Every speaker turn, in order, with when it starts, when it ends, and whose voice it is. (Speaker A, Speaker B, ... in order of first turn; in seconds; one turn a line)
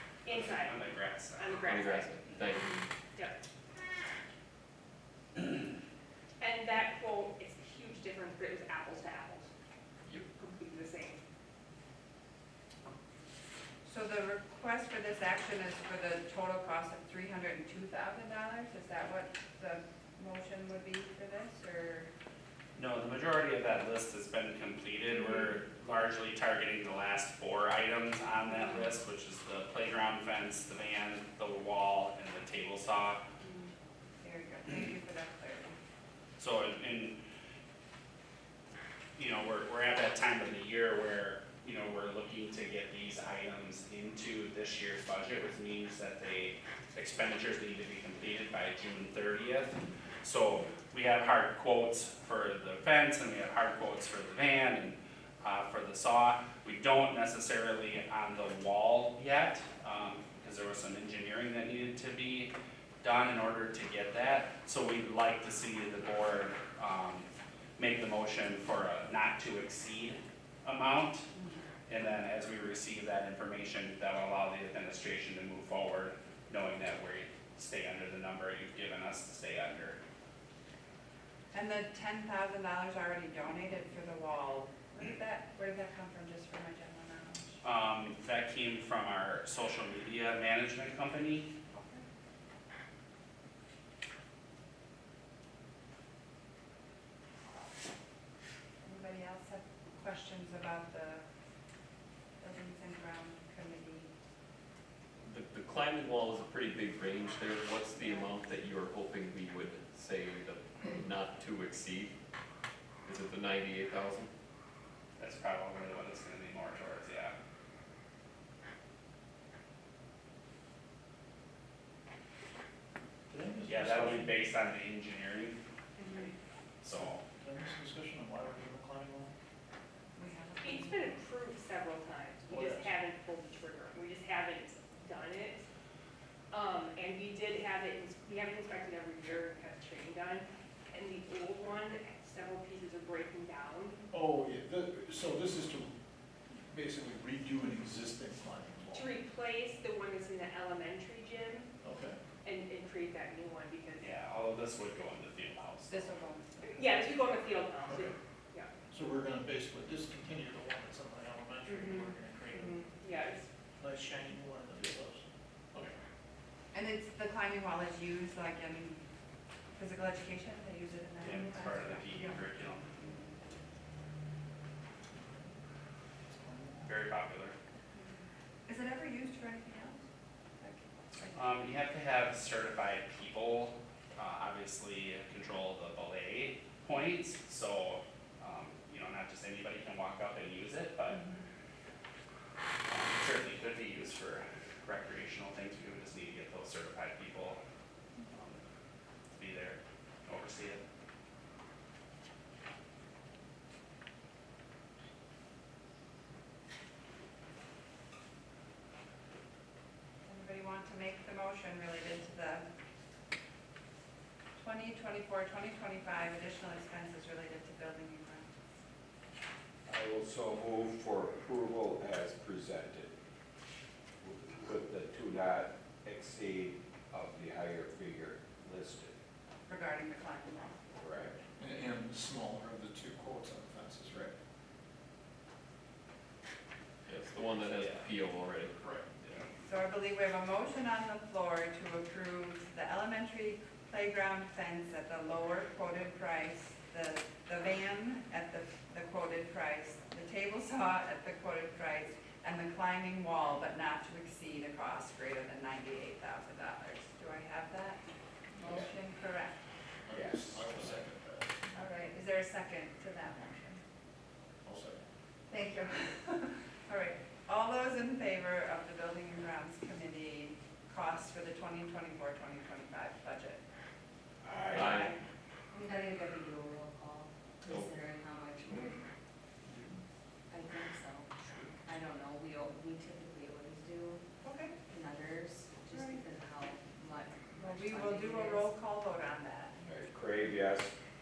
Speaker A: 0.3-2.3
Speaker B: 0.3-1.6
Speaker C: 1.7-2.9
Speaker A: 3.1-3.4
Speaker A: 6.4-9.5
Speaker A: 10.4-11.2
Speaker D: 13.8-22.1
Speaker B: 22.8-33.2
Speaker D: 34.2-35.8
Speaker B: 36.4-37.2
Speaker B: 39.2-71.3
Speaker D: 71.4-71.6
Speaker B: 71.9-80.0
Speaker D: 81.5-87.6
Speaker B: 87.6-91.5
Speaker D: 91.7-92.0
Speaker D: 98.8-101.2
Speaker D: 102.4-104.1
Speaker C: 105.2-112.2
Speaker D: 108.0-108.3
Speaker C: 113.0-114.3
Speaker B: 115.2-117.3
Speaker E: 123.3-124.4
Speaker B: 123.7-125.6
Speaker A: 126.0-126.3
Speaker B: 126.8-127.2
Speaker E: 127.0-129.3
Speaker D: 130.2-131.2
Speaker A: 130.6-135.7
Speaker E: 132.5-133.0
Speaker A: 136.5-144.1
Speaker E: 144.1-145.9
Speaker E: 146.7-149.2
Speaker A: 148.9-151.7
Speaker E: 151.8-152.2
Speaker A: 152.4-154.1
Speaker B: 154.0-156.1
Speaker D: 155.9-156.9
Speaker A: 156.6-158.7
Speaker E: 157.9-158.2
Speaker E: 158.9-162.8
Speaker A: 161.7-163.5
Speaker E: 163.8-165.9
Speaker D: 166.7-169.0
Speaker D: 169.8-173.3
Speaker B: 171.2-172.9
Speaker E: 175.2-175.5
Speaker E: 176.3-177.0
Speaker B: 176.8-177.6
Speaker D: 178.7-180.0
Speaker D: 180.6-181.6
Speaker B: 181.3-191.2
Speaker B: 192.9-197.6
Speaker B: 198.3-198.6
Speaker B: 199.3-200.8
Speaker D: 210.3-212.7
Speaker D: 214.6-218.5
Speaker F: 219.9-223.1
Speaker F: 224.2-229.2
Speaker D: 229.7-230.8
Speaker F: 231.0-231.4
Speaker E: 231.6-234.3
Speaker C: 237.1-238.8
Speaker E: 238.8-239.1
Speaker D: 239.6-258.0
Speaker D: 258.6-259.6
Speaker E: 260.1-261.8
Speaker F: 260.1-260.7
Speaker D: 261.7-263.8
Speaker E: 264.6-265.0
Speaker D: 265.5-273.6
Speaker F: 274.4-275.1
Speaker C: 274.7-275.1
Speaker D: 274.8-275.1
Speaker G: 275.7-279.0
Speaker G: 280.5-284.2
Speaker D: 284.4-284.8
Speaker G: 284.9-288.7
Speaker D: 285.9-286.3
Speaker D: 287.6-289.8
Speaker F: 289.9-290.9